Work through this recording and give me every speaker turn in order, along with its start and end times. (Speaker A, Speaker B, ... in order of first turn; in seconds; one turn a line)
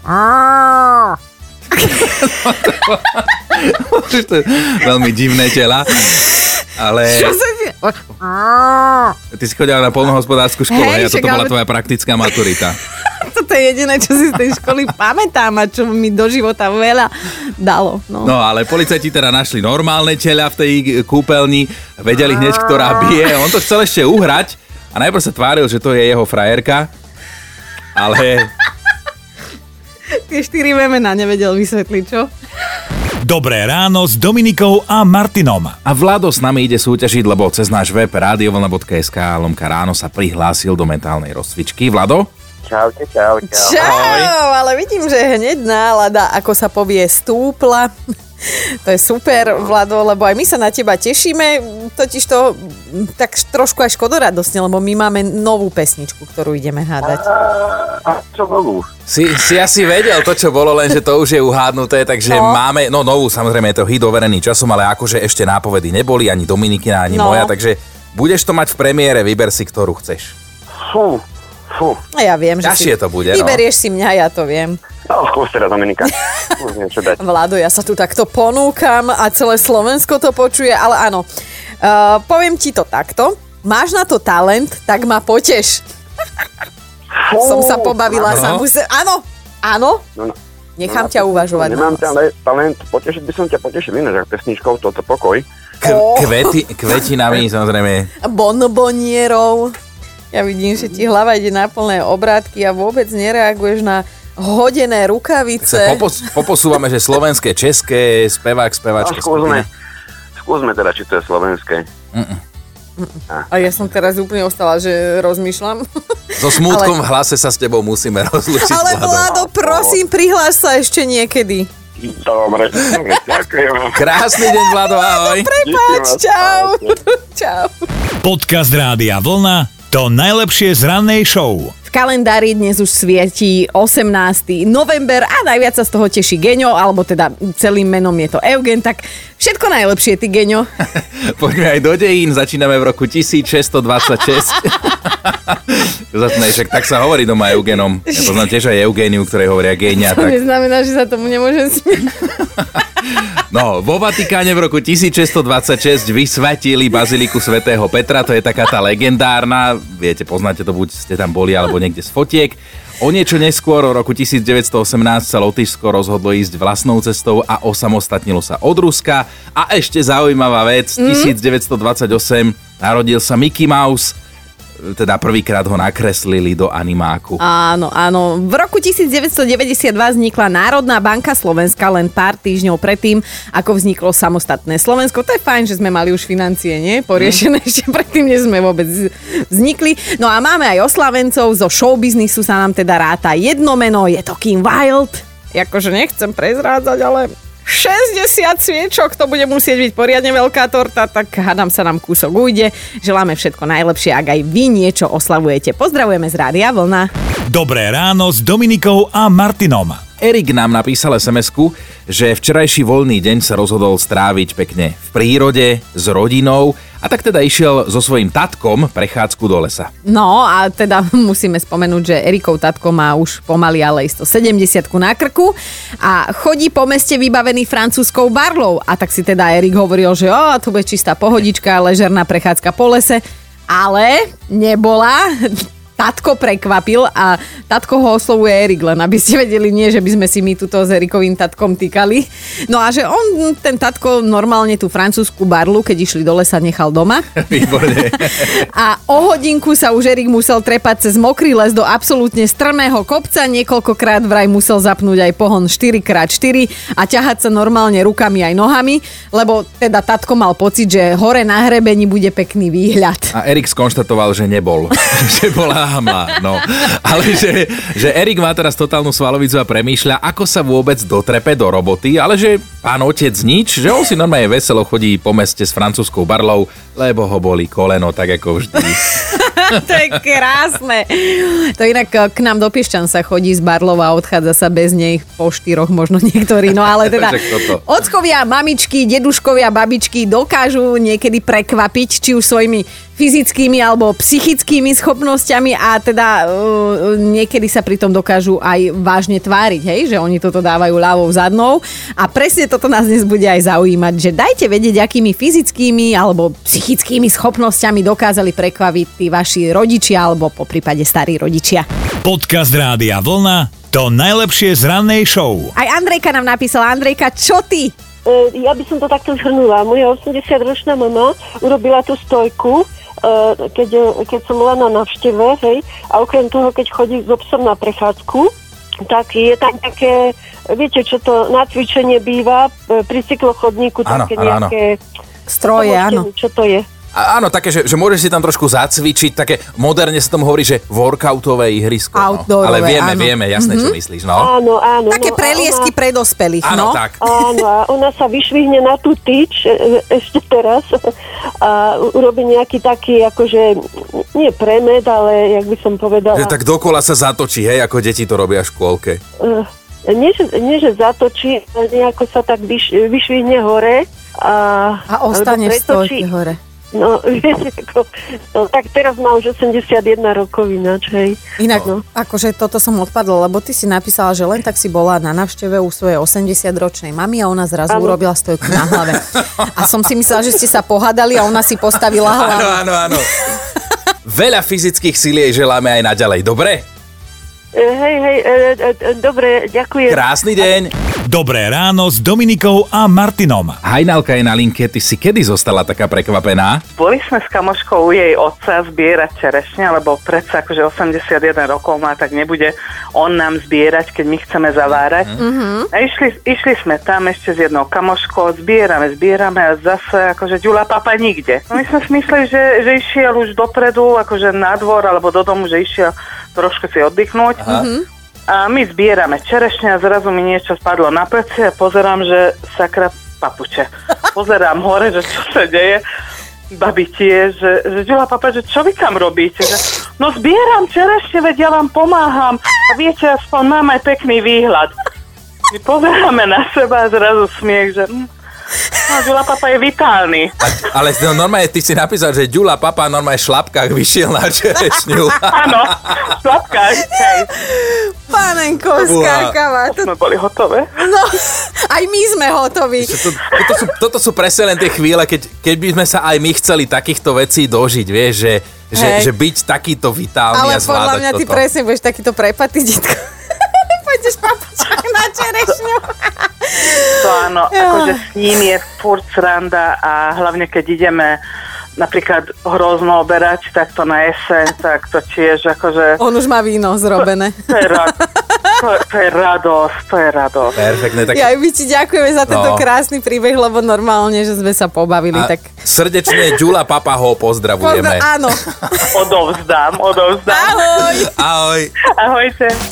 Speaker A: 0.1-1.1
Speaker B: 1.9-7.4
Speaker A: 7.0-9.1
Speaker B: 9.3-12.8
Speaker A: 10.7-11.5
Speaker A: 13.2-18.3
Speaker B: 18.2-26.9
Speaker B: 27.9-28.5
Speaker A: 30.2-32.3
Speaker C: 33.2-35.8
Speaker B: 35.8-42.3
Speaker D: 42.6-43.8
Speaker A: 43.5-47.9
Speaker B: 43.8-44.3
Speaker A: 48.5-57.2
Speaker D: 57.1-58.9
Speaker B: 59.1-70.3
Speaker A: 62.3-62.6
Speaker A: 67.1-67.5
Speaker D: 70.9-71.2
Speaker D: 71.7-72.0
Speaker A: 72.2-74.8
Speaker B: 72.6-73.6
Speaker D: 75.1-77.2
Speaker A: 77.2-81.2
Speaker A: 81.8-85.8
Speaker D: 87.2-88.3
Speaker A: 87.4-90.0
Speaker B: 88.2-88.6
Speaker A: 90.8-92.1
Speaker D: 90.9-95.5
Speaker B: 95.8-98.1
Speaker A: 95.8-96.4
Speaker A: 98.2-99.7
Speaker A: 100.3-106.0
Speaker B: 105.6-109.7
Speaker D: 109.0-109.7
Speaker D: 110.4-111.9
Speaker B: 112.1-112.4
Speaker A: 113.0-115.8
Speaker B: 116.4-119.5
Speaker A: 116.6-116.9
Speaker A: 118.6-121.7
Speaker D: 119.5-120.0
Speaker D: 122.0-124.0
Speaker B: 123.9-125.5
Speaker A: 124.6-127.7
Speaker D: 125.6-126.9
Speaker C: 128.2-131.7
Speaker A: 131.8-140.7
Speaker B: 141.0-150.4
Speaker A: 150.0-152.3
Speaker B: 153.5-174.1
Speaker A: 171.0-171.3
Speaker B: 174.8-177.4
Speaker A: 177.4-207.1
Speaker C: 207.5-210.0
Speaker B: 210.2-219.9
Speaker A: 220.0-247.4
Speaker B: 247.4-248.6
Speaker A: 248.3-263.3
Speaker B: 263.3-279.2
Speaker A: 279.2-311.9
Speaker B: 286.9-287.8
Speaker C: 312.2-315.7
Speaker A: 315.8-317.9
Speaker E: 318.2-328.5
Speaker E: 329.1-335.0
Speaker B: 334.0-334.7
Speaker A: 335.5-336.3
Speaker E: 335.7-336.9
Speaker B: 337.1-344.5
Speaker A: 342.1-343.9
Speaker E: 344.4-345.9
Speaker A: 345.1-347.0
Speaker B: 346.6-347.2
Speaker E: 347.2-351.1
Speaker E: 351.6-356.6
Speaker B: 356.3-359.2
Speaker E: 359.4-366.3
Speaker A: 365.1-366.6
Speaker E: 366.9-372.0
Speaker A: 371.6-383.2
Speaker E: 377.9-378.2
Speaker B: 379.1-379.4
Speaker B: 382.2-383.3
Speaker B: 384.2-386.8
Speaker E: 387.7-390.7
Speaker B: 390.1-390.9
Speaker C: 391.3-393.8
Speaker B: 393.8-396.8
Speaker F: 396.9-417.8
Speaker B: 404.9-405.4
Speaker A: 405.4-405.9
Speaker B: 417.6-417.9
Speaker A: 417.7-418.0
Speaker F: 418.5-426.0
Speaker F: 426.7-434.9
Speaker F: 435.7-438.3
Speaker F: 439.1-440.6
Speaker B: 440.6-446.3
Speaker F: 445.5-447.5
Speaker A: 447.5-450.1
Speaker B: 448.9-449.5
Speaker F: 449.9-450.9
Speaker A: 451.0-453.1
Speaker B: 453.0-461.6
Speaker A: 458.9-459.3
Speaker A: 460.5-467.2
Speaker F: 467.2-471.4
Speaker A: 467.7-468.1
Speaker F: 472.0-476.2
Speaker A: 476.2-477.6
Speaker F: 477.7-478.1
Speaker A: 478.4-478.7
Speaker F: 478.8-480.8
Speaker B: 480.8-481.5
Speaker A: 481.3-485.7
Speaker B: 482.5-482.9
Speaker B: 485.3-488.3
Speaker A: 487.8-489.1
Speaker F: 489.1-491.0
Speaker A: 490.5-491.3
Speaker B: 491.1-491.9
Speaker F: 492.2-492.8